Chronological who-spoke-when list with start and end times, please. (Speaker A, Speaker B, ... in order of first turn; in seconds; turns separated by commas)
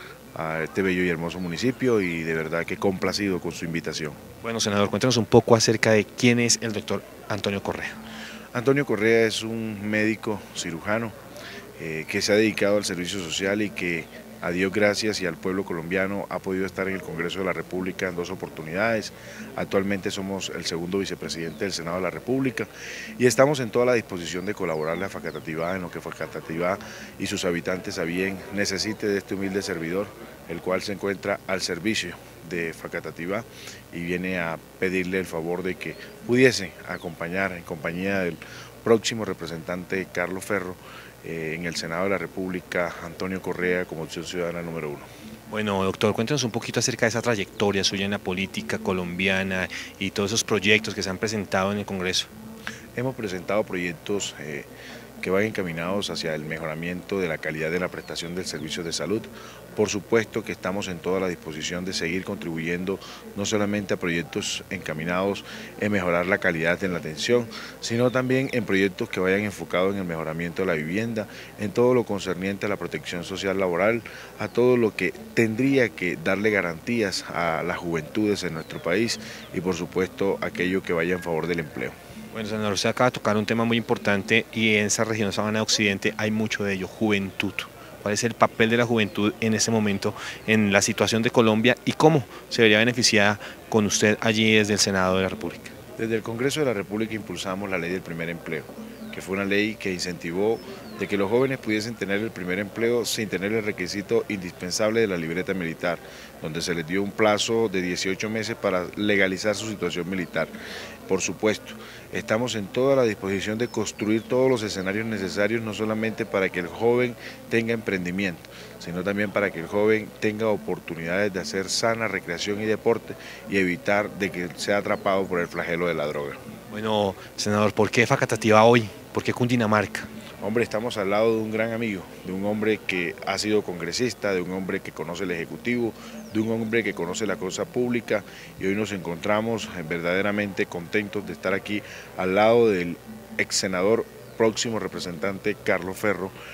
Speaker A: 0.3-4.2, Speaker B: 4.4-8.0, Speaker A: 8.5-11.1, Speaker A: 11.8-45.1, Speaker B: 45.5-52.3, Speaker A: 53.0-54.7, Speaker A: 55.2-81.9, Speaker B: 82.3-95.7, Speaker A: 96.0-110.5, Speaker A: 111.1-126.4, Speaker B: 126.7-130.1, Speaker A: 130.4-146.3